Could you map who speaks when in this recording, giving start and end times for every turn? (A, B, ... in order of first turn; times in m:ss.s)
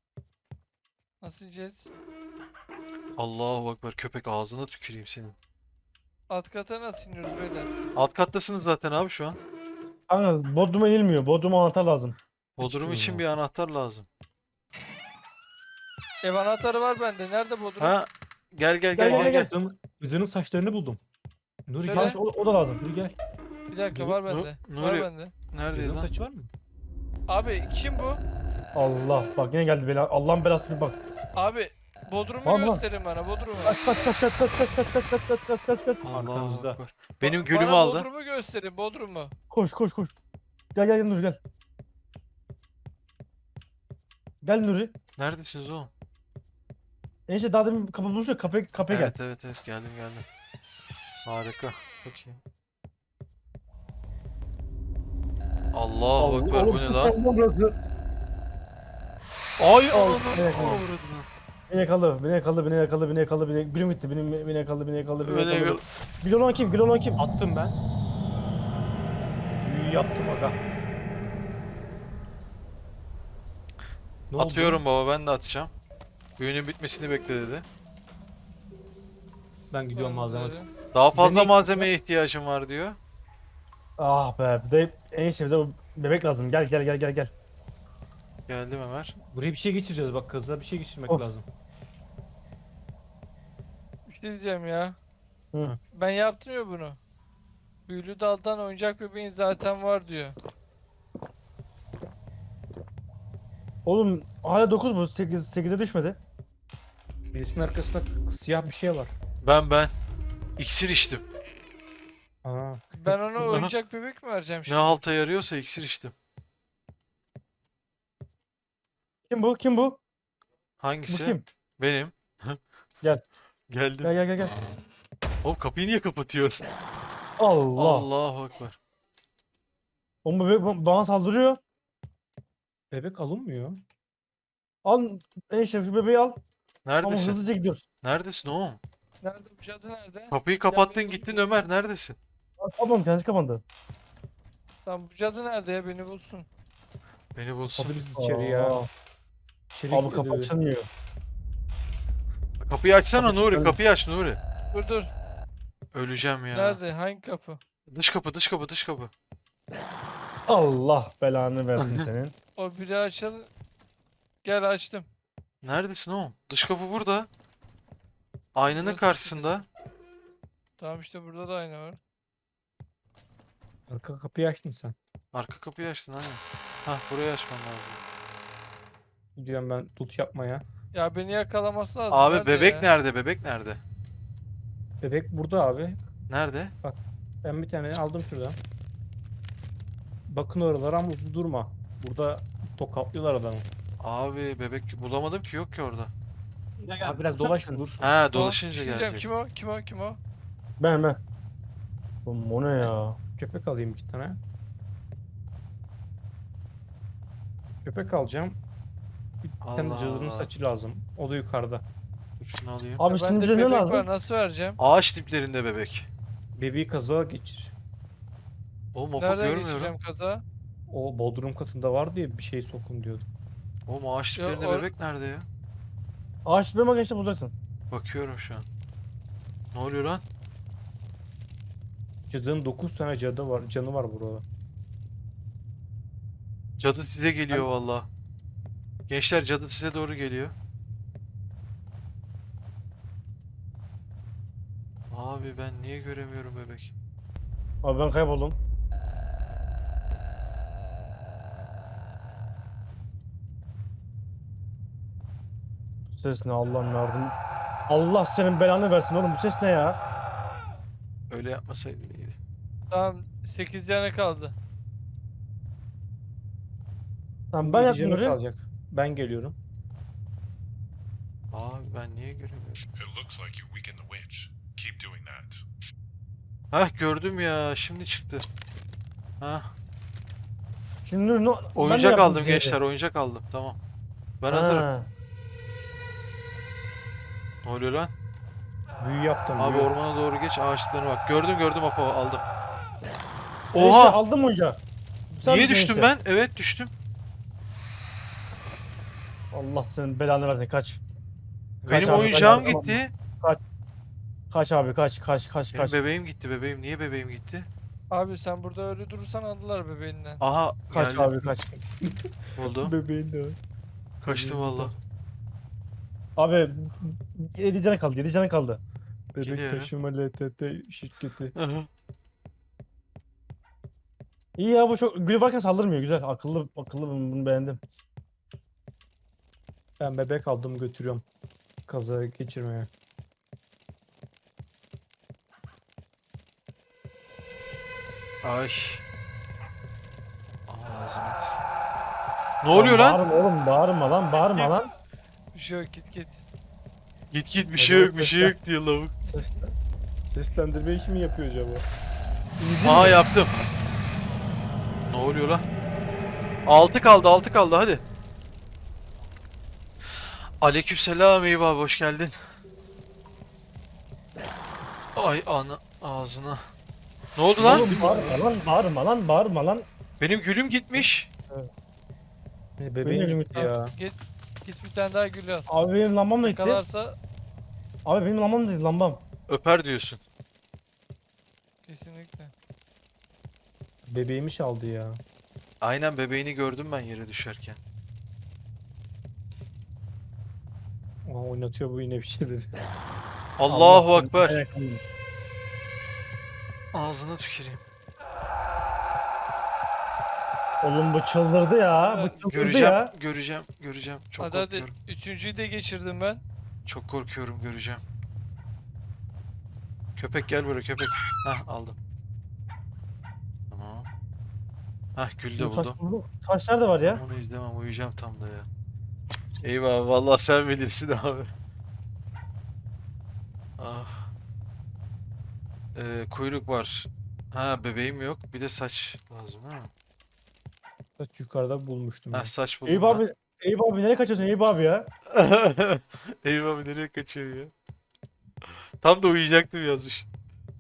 0:01.2-0:01.9 A
0:03.2-0:05.4 B
0:06.3-0:07.7 A
0:07.9-0:09.4 B
0:10.1-0:12.2 C
0:12.6-0:14.0 B
0:12.6-0:13.3 D
0:16.2-0:18.0 A
0:17.8-0:19.5 B
0:18.9-0:19.5 C
0:19.0-0:21.0 D
0:21.7-0:22.2 D
0:21.8-0:22.8 C
0:21.8-0:22.2 A
0:22.8-0:23.2 D
0:23.7-0:25.3 A
0:24.3-0:26.1 B
0:25.7-0:26.5 D
0:27.3-0:28.2 A
0:28.8-0:31.0 C
0:31.4-0:33.8 A
0:32.4-0:32.8 C
0:33.6-0:36.0 C
0:36.0-0:38.0 B
0:36.1-0:36.8 D
0:37.2-0:39.3 A
0:39.5-0:40.1 C
0:40.8-0:41.4 C
0:44.4-0:44.9 C
0:45.2-0:45.9 B
0:47.3-0:49.1 C
0:48.9-0:50.2 B
0:51.2-0:52.4 B
0:55.7-0:57.1 B
0:56.2-0:57.8 C
0:59.6-1:01.3 B
0:59.9-1:00.9 C
1:01.7-1:07.2 C
1:05.2-1:05.8 B
1:07.2-1:07.8 D
1:09.6-1:10.6 D
1:14.3-1:14.8 D
1:14.4-1:15.7 B
1:16.4-1:17.6 B
1:19.7-1:20.6 D
1:20.0-1:20.7 A
1:20.9-1:23.0 B
1:21.1-1:21.9 D
1:24.0-1:27.3 C
1:28.5-1:29.2 B
1:29.3-1:31.5 D
1:34.0-1:35.0 A
1:35.5-1:35.8 C
1:35.9-1:37.0 A
1:37.9-1:40.4 A
1:43.9-1:46.2 C
1:47.3-1:49.1 D
1:49.4-1:49.9 B
1:50.6-1:51.2 B
1:52.4-1:53.1 D
1:53.0-1:55.0 A
1:53.4-1:53.7 B
1:54.7-1:56.1 B
1:59.3-2:00.0 C
2:00.8-2:02.6 B
2:01.1-2:01.4 C
2:03.7-2:04.7 B
2:04.0-2:04.5 C
2:05.4-2:06.6 B
2:07.4-2:08.1 C
2:07.8-2:08.8 B
2:10.2-2:11.6 C
2:12.9-2:13.8 D
2:14.8-2:16.4 C
2:16.9-2:17.4 B
2:17.0-2:17.8 C
2:18.0-2:18.8 B
2:19.2-2:21.5 A
2:20.3-2:22.2 B
2:22.6-2:23.6 C
2:24.9-2:26.5 A
2:27.4-2:28.0 B
2:27.7-2:28.9 D
2:28.1-2:28.9 C
2:29.7-2:30.5 D
2:29.9-2:30.9 C
2:32.6-2:34.4 B
2:33.2-2:33.8 C
2:34.7-2:35.1 A
2:35.9-2:36.8 B
2:36.5-2:37.6 A
2:37.9-2:39.1 B
2:40.5-2:42.3 C
2:41.8-2:42.1 B
2:42.6-2:43.5 A
2:44.4-2:45.1 A
2:45.6-2:47.3 B
2:48.5-2:49.6 B
2:48.7-2:49.5 A
2:50.8-2:52.0 A
2:53.9-2:55.0 D
2:55.3-2:58.0 B
2:59.4-3:00.6 D
3:00.9-3:02.9 A
3:02.1-3:03.8 B
3:05.0-3:06.0 D
3:06.3-3:06.7 B
3:06.8-3:08.6 D
3:10.3-3:13.6 D
3:14.0-3:16.1 B
3:16.8-3:18.1 D
3:17.0-3:17.8 C
3:18.0-3:19.2 B
3:18.3-3:20.2 A
3:20.8-3:21.2 C
3:22.2-3:23.2 C
3:23.4-3:24.4 D
3:27.8-3:28.6 D
3:29.4-3:31.8 D
3:29.6-3:30.5 B
3:32.4-3:33.0 B
3:33.0-3:34.1 C
3:33.0-3:34.8 A
3:34.8-3:36.1 B
3:36.6-3:37.7 D
3:38.9-3:39.9 B
3:39.2-3:40.4 A
3:40.9-3:43.3 D
3:43.9-3:45.5 B
3:44.4-3:44.9 A
3:46.4-3:47.5 C
3:47.9-3:48.6 B
3:49.7-3:50.2 B
3:52.3-3:54.4 D
3:56.8-3:58.1 B
3:59.1-4:00.5 B
4:05.1-4:06.9 B
4:07.8-4:08.6 C
4:16.1-4:17.4 C
4:17.9-4:20.0 C
4:21.3-4:22.4 B
4:22.9-4:24.5 A
4:27.5-4:28.4 C
4:27.6-4:29.6 D
4:31.5-4:32.8 B
4:33.0-4:35.6 E
4:36.7-4:38.4 B
4:39.4-4:39.7 B
4:41.0-4:42.8 C
4:41.8-4:43.8 B
4:44.4-4:44.9 B
4:44.5-4:45.1 C
4:47.6-4:48.1 B
4:49.0-4:49.9 D
4:49.6-4:52.4 B
4:53.7-4:54.2 B
4:53.7-4:54.8 C
4:55.3-4:56.1 C
4:55.4-4:56.9 B
4:59.5-5:01.0 C
5:01.8-5:02.7 D
5:01.9-5:03.1 B
5:01.9-5:03.6 C
5:04.5-5:06.0 C
5:05.7-5:07.7 B
5:08.1-5:10.4 A
5:10.4-5:11.3 B
5:10.9-5:11.6 C
5:11.6-5:13.6 D
5:12.6-5:12.9 B
5:14.2-5:14.9 B
5:14.2-5:14.9 D
5:16.4-5:18.8 C
5:19.3-5:21.6 D
5:19.4-5:19.9 B
5:21.5-5:21.9 B
5:24.6-5:27.8 C
5:30.0-5:31.2 D
5:31.9-5:32.9 D
5:38.4-5:39.0 B
5:40.7-5:41.6 B
5:42.6-5:43.2 B
5:42.7-5:44.9 C
5:45.5-5:46.4 A
5:47.3-5:49.1 B
5:47.8-5:48.5 D
5:49.2-5:49.7 D
5:50.3-5:51.9 D
5:52.6-5:53.2 C
5:52.8-5:53.5 B
5:55.1-5:55.6 B
5:56.6-5:58.0 B
6:00.6-6:02.3 B
6:05.2-6:06.6 B
6:07.4-6:07.9 B
6:07.6-6:09.9 C
6:07.6-6:08.4 D
6:10.2-6:11.3 B
6:12.8-6:13.9 D
6:13.0-6:13.7 C
6:13.9-6:15.7 A
6:15.7-6:16.8 C
6:16.4-6:17.2 A
6:18.0-6:19.2 C
6:19.5-6:20.2 B
6:21.8-6:22.5 A
6:24.1-6:25.2 D
6:25.8-6:27.8 B
6:31.2-6:32.7 D
6:33.6-6:34.6 B
6:33.7-6:35.0 C
6:36.9-6:37.8 B
6:40.8-6:43.1 C
6:42.0-6:42.5 A
6:42.5-6:44.9 B
6:44.4-6:46.4 A
6:46.9-6:48.0 B
6:50.2-6:52.0 B
6:53.7-6:54.1 B
6:55.2-6:56.0 B
6:55.6-6:57.2 C
6:57.0-6:58.7 B
6:59.6-7:01.5 B
7:03.8-7:04.3 B
7:05.9-7:09.9 B
7:11.2-7:12.5 D
7:12.3-7:13.2 B
7:12.9-7:15.1 C
7:15.3-7:17.7 B
7:19.0-7:20.3 B